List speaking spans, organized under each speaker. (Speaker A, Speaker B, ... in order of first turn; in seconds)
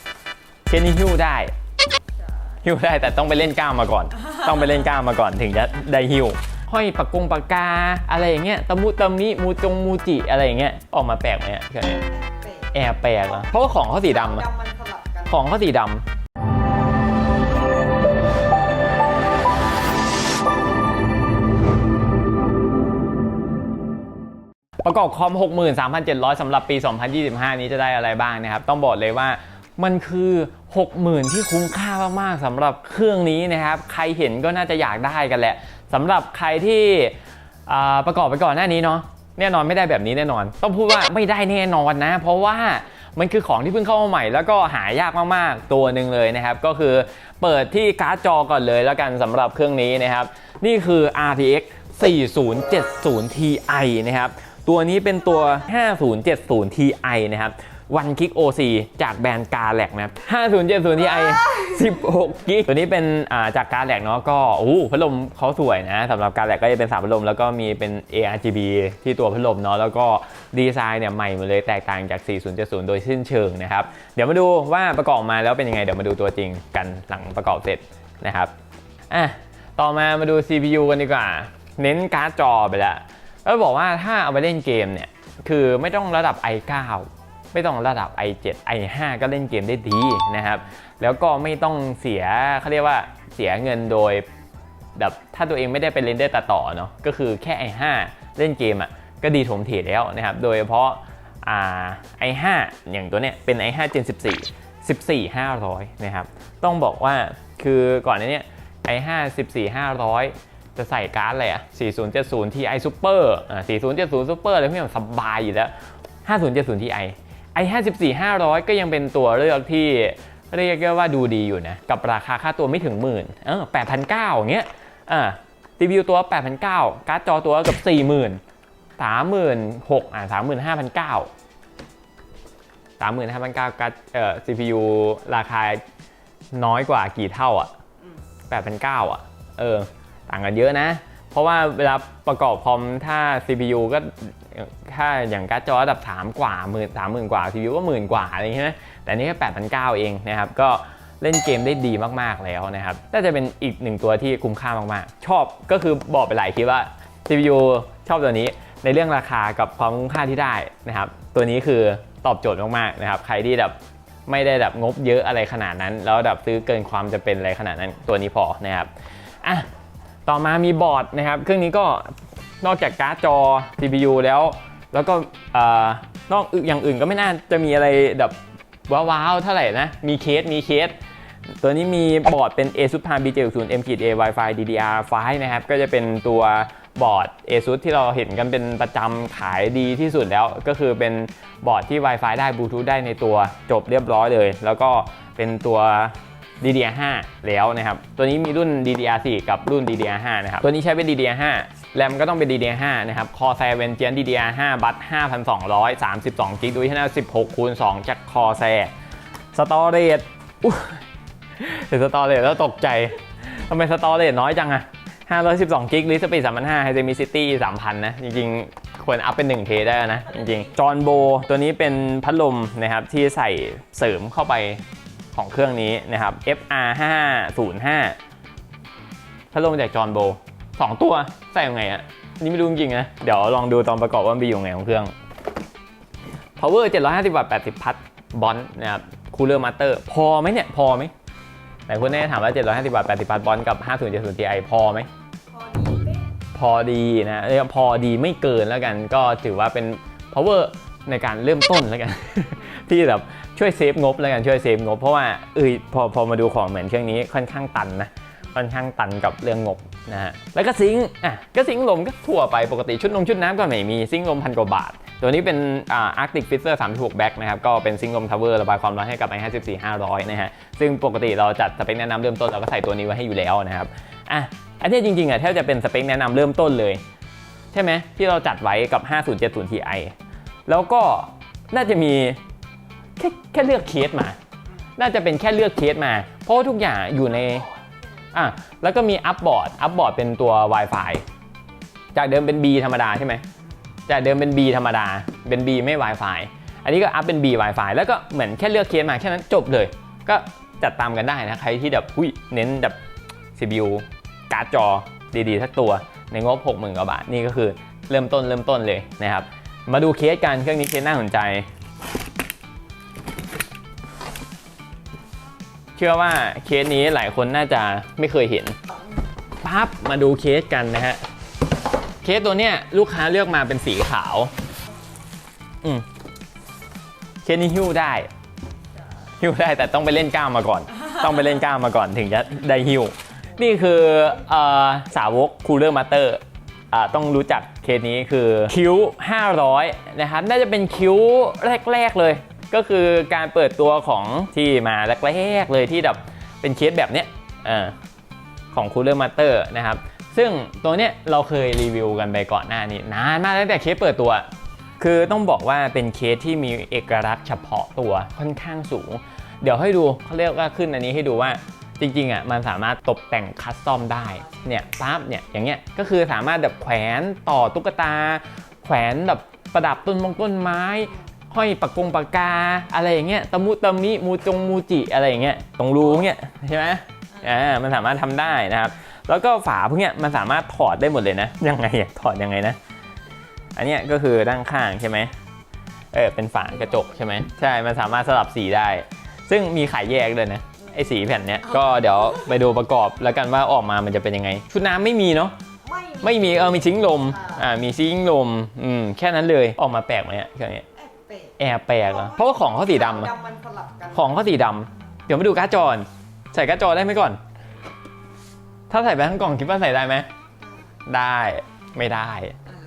Speaker A: 0.7-1.5, 2.6-12.0, 12.7-14.5, 15.3-16.0, 24.8-37.2, 37.7-78.5, 79.1-94.2, 95.0-115.7, 116.2-128.4, 129.0-131.3, 133.0-135.8, 136.5-137.7, 138.5-168.9, 169.4-169.7, 170.2-178.4, 178.9-181.0, 181.6-208.9, 209.5-211.0, 211.6-224.8, 225.3-228.2, 229.5-235.1, 236.6-241.1, 241.9-245.1, 246.5-277.0, 277.7-280.1, 280.7-282.4, 283.2-284.4, 285.0-287.7, 288.3-291.2, 292.1-293.4, 294.1-303.0, 303.6-311.7, 316.0-318.8, 319.6-321.2, 322.2-324.5, 327.4-328.3, 329.4-347.9, 348.7-354.5, 355.0-382.8, 383.8-385.3, 386.1-395.6, 396.2-400.9, 401.6-403.3, 404.1-407.4, 408.9-410.3, 411.1-412.6
Speaker B: 12.2-12.7, 14.1-15.3, 245.5-246.3, 287.7-288.0, 395.9-397.6, 401.0-401.5, 402.9-404.2